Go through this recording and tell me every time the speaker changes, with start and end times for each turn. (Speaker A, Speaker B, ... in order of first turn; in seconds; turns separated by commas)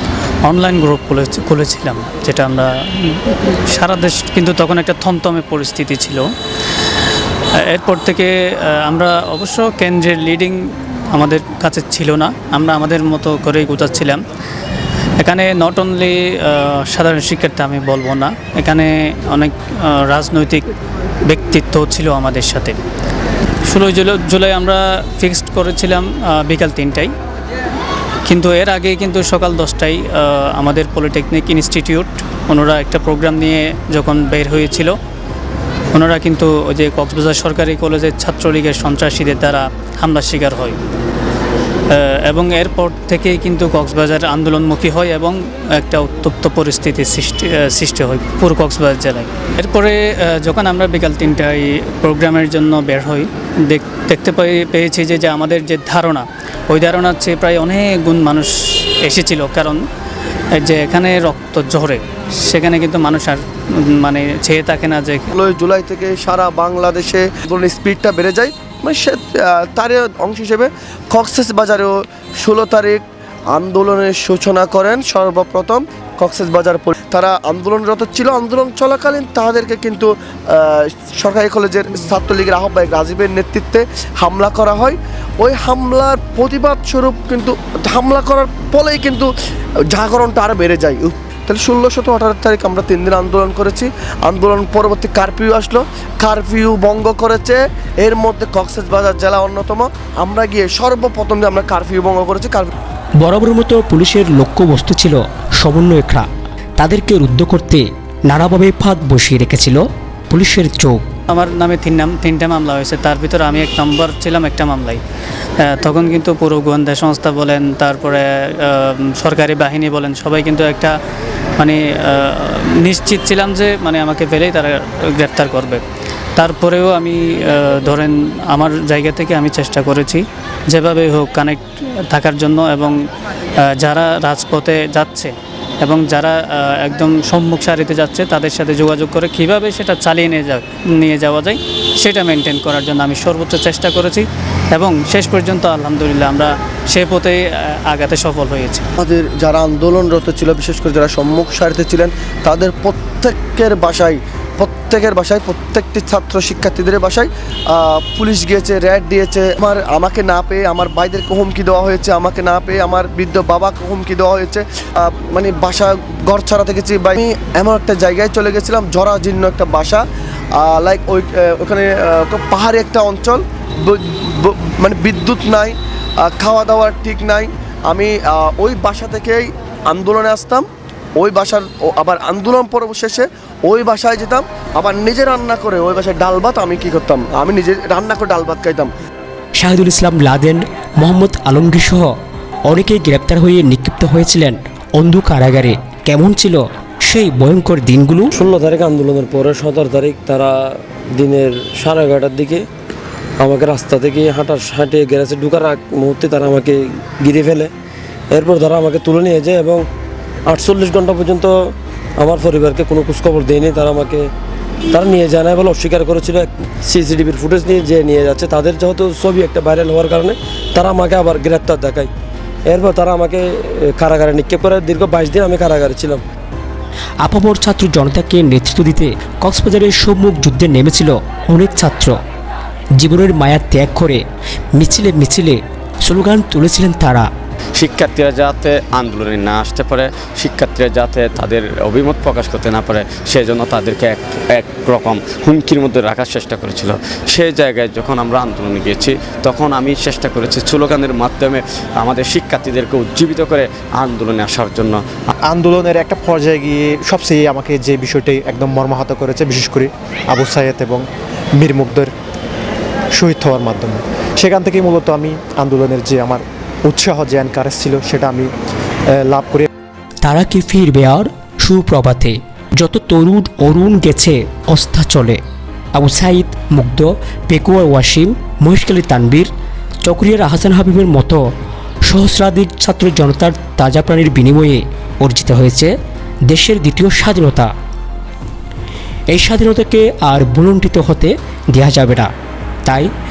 Speaker A: 0.4-6.3, Speaker A: 7.5-14.2, Speaker A: 15.2-20.7, Speaker A: 21.2-22.8, Speaker A: 23.6-27.1, Speaker A: 28.3-35.0, Speaker A: 35.9-40.8, Speaker A: 41.9-59.8, Speaker A: 60.5-65.3, Speaker B: 65.3-89.3, Speaker B: 89.9-102.7, Speaker C: 103.2-106.3, Speaker C: 106.8-111.0, Speaker A: 111.3-115.0, Speaker A: 115.6-121.0, Speaker A: 121.6-125.8, Speaker A: 126.4-133.0, Speaker A: 133.6-148.9, Speaker B: 149.0-170.0, Speaker B: 170.6-180.7, Speaker B: 181.2-188.9, Speaker C: 189.6-192.1, Speaker C: 192.7-198.3, Speaker D: 198.4-202.7, Speaker D: 203.4-207.7, Speaker D: 208.3-209.9, Speaker D: 210.5-214.3, Speaker D: 214.9-222.1, Speaker D: 222.7-226.2, Speaker C: 227.2-232.2, Speaker C: 233.0-234.2, Speaker C: 234.8-237.3, Speaker E: 237.8-255.0, Speaker F: 255.5-261.0, Speaker F: 261.6-262.1, Speaker F: 263.2-268.5, Speaker F: 269.2-269.7, Speaker C: 270.2-275.4, Speaker C: 275.9-279.5, Speaker C: 280.0-281.4, Speaker C: 282.1-285.9, Speaker C: 286.5-287.7, Speaker C: 289.3-292.3